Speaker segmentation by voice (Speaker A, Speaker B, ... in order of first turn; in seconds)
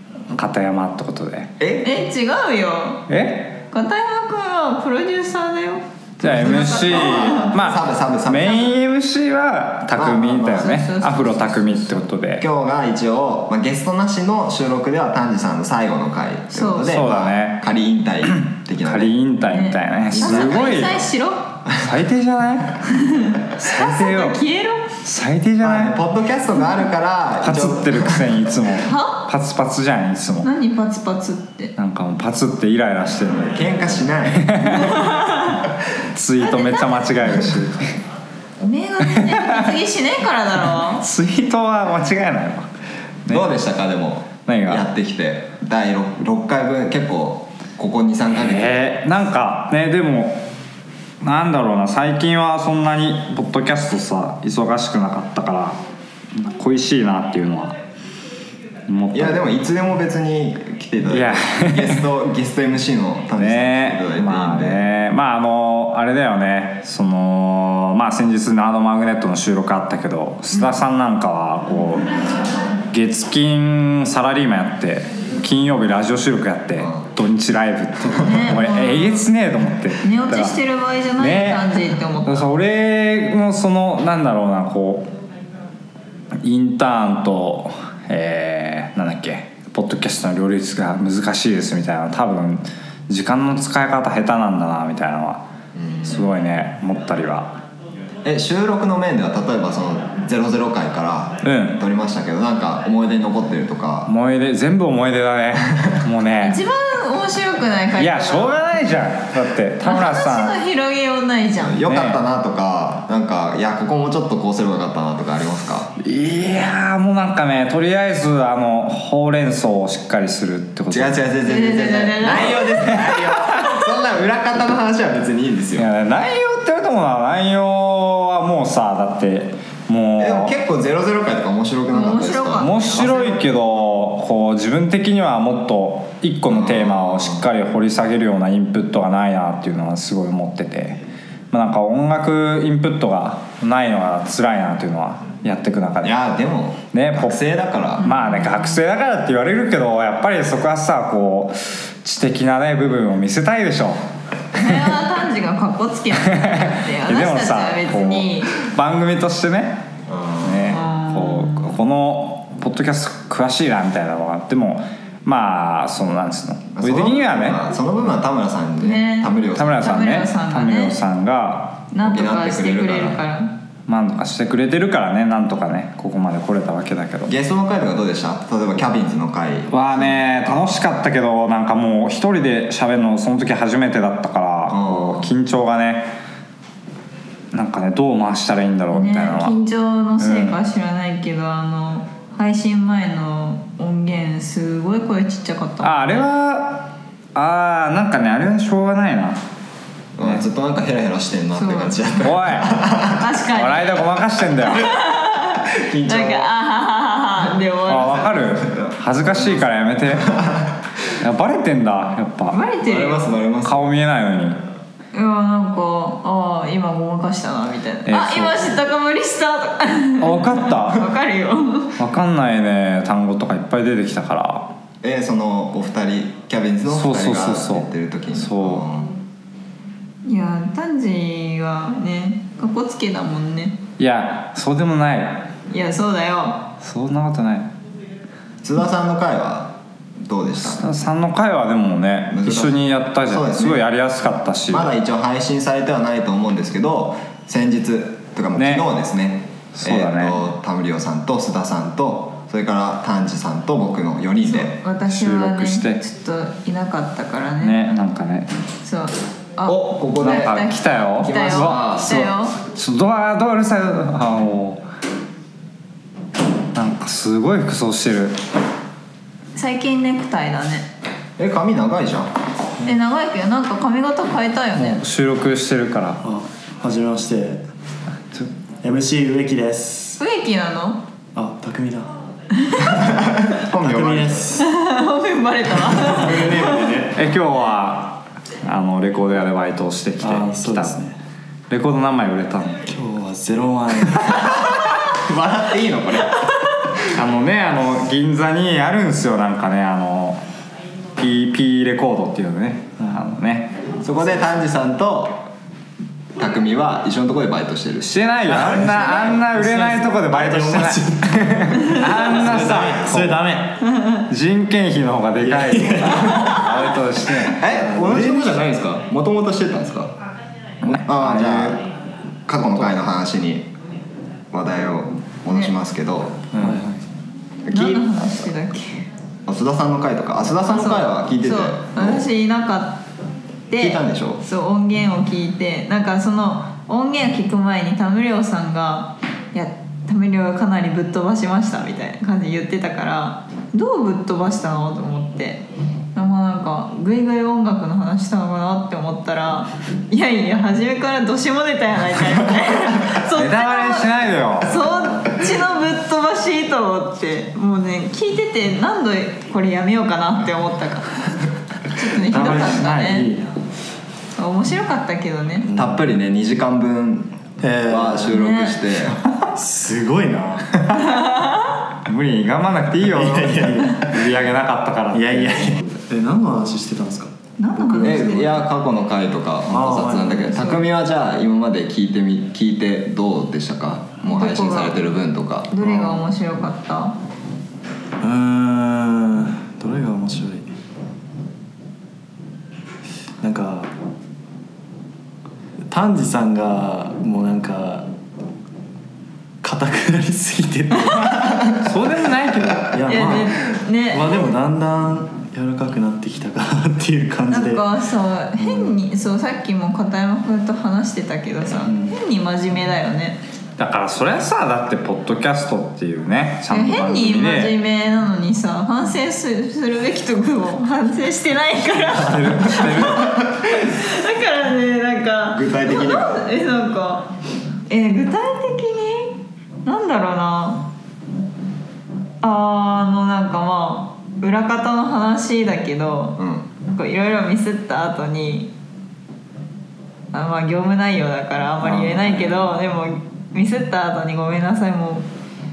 Speaker A: 0.3-1.6, 3.1-3.6, 6.2-12.4, 16.8-17.6, 18.2-21.0, 21.7-22.9, 23.5-24.4, 25.0-26.0, 27.4-30.5, 31.8-33.7, 34.4-35.0, 36.1-37.9, 39.1-39.6, 41.0-42.7, 43.2-43.6, 44.5-44.9, 48.3-50.5, 51.2-55.8, 56.3-57.7, 58.9-59.5, 61.1-62.0, 63.4-72.1, 72.9-80.6, 81.2-85.1, 86.4-95.4, 96.0-97.6, 101.4-101.8, 104.1-106.6, 108.0-110.6, 111.8-112.2, 116.0-121.2, 123.0-123.8, 125.8-130.5, 132.6-141.0, 141.5-146.2, 146.9-147.4, 148.0-154.0, 154.6-154.9, 156.2-159.9, 160.4-167.7, 169.6-171.8, 173.9-177.3, 179.7-186.1, 187.5-189.6, 190.2-190.6, 195.8-199.4, 202.2-202.8, 203.5-204.9, 207.9-210.5, 211.1-212.6, 213.6-214.6, 218.1-218.7, 220.2-221.1, 221.9-224.7, 226.9-228.8, 234.0-235.5, 236.8-237.7, 240.6-244.9, 248.6-248.9, 249.7-250.4, 255.1-256.0, 257.6-258.5, 260.2-264.8, 266.7-268.4, 274.8-276.2, 287.1-291.0, 291.7-292.8, 297.1-300.4, 301.2-303.8, 308.0-313.6, 314.2-317.6, 320.8-321.7, 326.5-326.8, 353.2-354.7, 362.3-363.2, 372.0-375.8, 401.7-403.3, 413.8-417.8, 422.1-423.4
Speaker B: 1.6-1.9, 6.2-8.7, 9.9-10.7, 12.4-19.1, 20.1-20.8, 25.6-28.3, 33.4-34.9, 43.3-48.8, 59.1-64.8, 95.8-96.2, 98.2-104.1, 111.5-115.9, 120.9-125.9, 130.2-133.4, 136.5-137.4, 146.0-148.1, 160.1-160.8, 166.7-170.0, 172.0-173.2, 177.3-180.8, 184.7-185.3, 200.2-203.2, 205.7-206.5, 208.0-209.5, 212.8-213.8, 225.0-229.1, 238.6-239.7, 240.2-240.8, 242.3-243.8, 244.7-254.8, 259.6-260.7, 261.2-262.3, 271.4-272.3, 282.9-284.4, 294.7-296.5, 304.0-305.5, 306.4-309.4, 316.1-316.6, 317.5-320.1, 320.8-321.8, 322.5-323.7, 324.5-326.5, 327.7-328.1, 329.5-332.2, 333.8-334.4, 365.7-369.2, 378.0-385.8, 425.5-426.4, 436.4-436.6
Speaker C: 1.8-3.1, 3.7-7.5, 10.5-12.0, 16.5-17.0, 19.5-21.6, 22.9-24.9, 28.8-29.2, 30.4-31.7, 34.7-35.5, 36.4-37.1, 38.6-41.1, 78.2-79.3, 80.0-82.5, 106.4-108.8, 109.8-111.8, 121.5-123.1, 131.9-133.3, 148.0-148.8, 154.5-158.5, 160.7-161.7, 168.8-171.0, 171.9-173.5, 188.9-196.2, 201.6-202.0, 203.1-204.0, 204.6-208.3, 212.5-213.3, 215.1-221.9, 230.2-233.8, 235.7-236.6, 254.4-257.8, 258.8-262.6, 269.5-270.9, 272.8-275.0, 280.2-281.0, 282.6-283.0, 284.6-286.9, 313.9-314.2, 325.5-325.7, 327.7-329.1, 330.6-333.0, 333.7-345.6, 346.1-361.1, 361.9-363.3, 364.4-365.7, 368.3-368.8, 370.9-371.8, 377.6-378.7, 384.2-385.0, 385.7-387.1, 401.1-401.4, 403.1-404.4, 407.5-413.4, 416.7-427.3, 427.9-430.9, 432.4-438.7, 440.3-445.3
Speaker D: 276.2-277.6, 278.8-280.2, 281.3-282.1, 283.7-284.7, 286.0-287.1, 290.2-291.1, 292.9-294.5, 308.6-313.8, 315.4-316.4, 317.8-318.7, 321.2-321.7, 326.6-327.0, 362.2-363.6, 365.6-366.0, 367.6-368.4, 369.5-370.8, 373.0-374.3, 375.1-378.6, 379.7-380.8, 385.8-386.2, 388.2-390.7, 393.4-393.9, 395.9-398.1, 399.6-401.8, 402.9-407.9, 408.6-409.0, 411.8-412.1